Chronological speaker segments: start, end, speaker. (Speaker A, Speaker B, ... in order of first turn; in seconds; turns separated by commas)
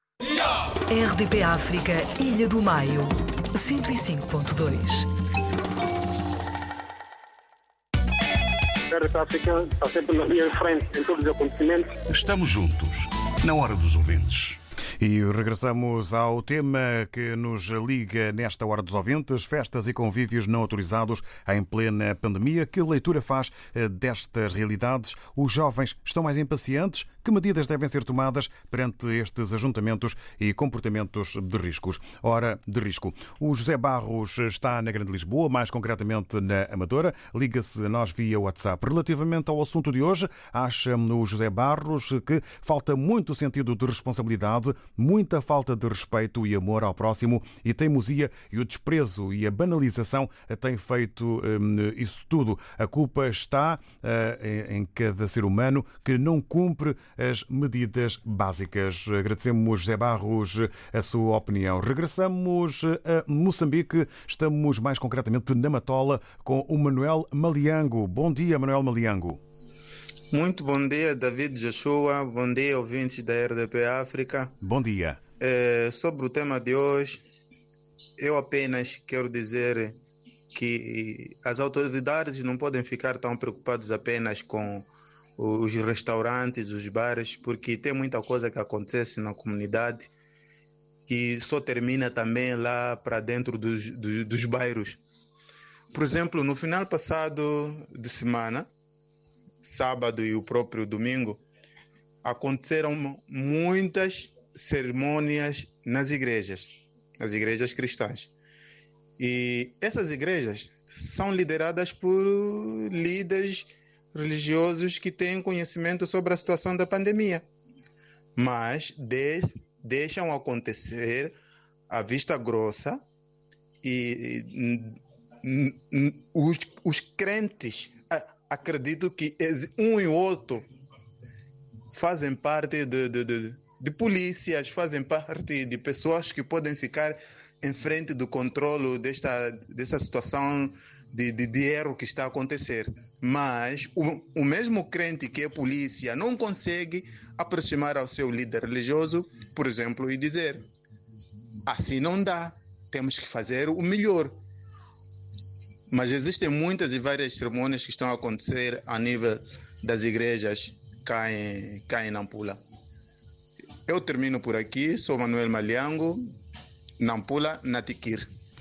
Speaker A: 0.9-5.1, Speaker B: 8.9-11.9, Speaker C: 12.1-14.6, Speaker D: 15.0-69.4, Speaker E: 70.3-74.5, Speaker D: 74.6-75.2, Speaker E: 75.4-77.2, Speaker E: 78.2-80.0, Speaker E: 80.5-84.9, Speaker E: 85.4-90.1, Speaker E: 91.1-95.0, Speaker E: 95.9-98.7, Speaker E: 99.6-101.4, Speaker E: 102.2-108.3, Speaker E: 109.2-117.5, Speaker E: 118.4-121.4, Speaker E: 121.9-123.0, Speaker E: 123.8-130.6, Speaker E: 131.9-150.6, Speaker E: 151.7-154.4, Speaker E: 155.9-162.6, Speaker E: 163.9-166.2, Speaker E: 167.0-168.3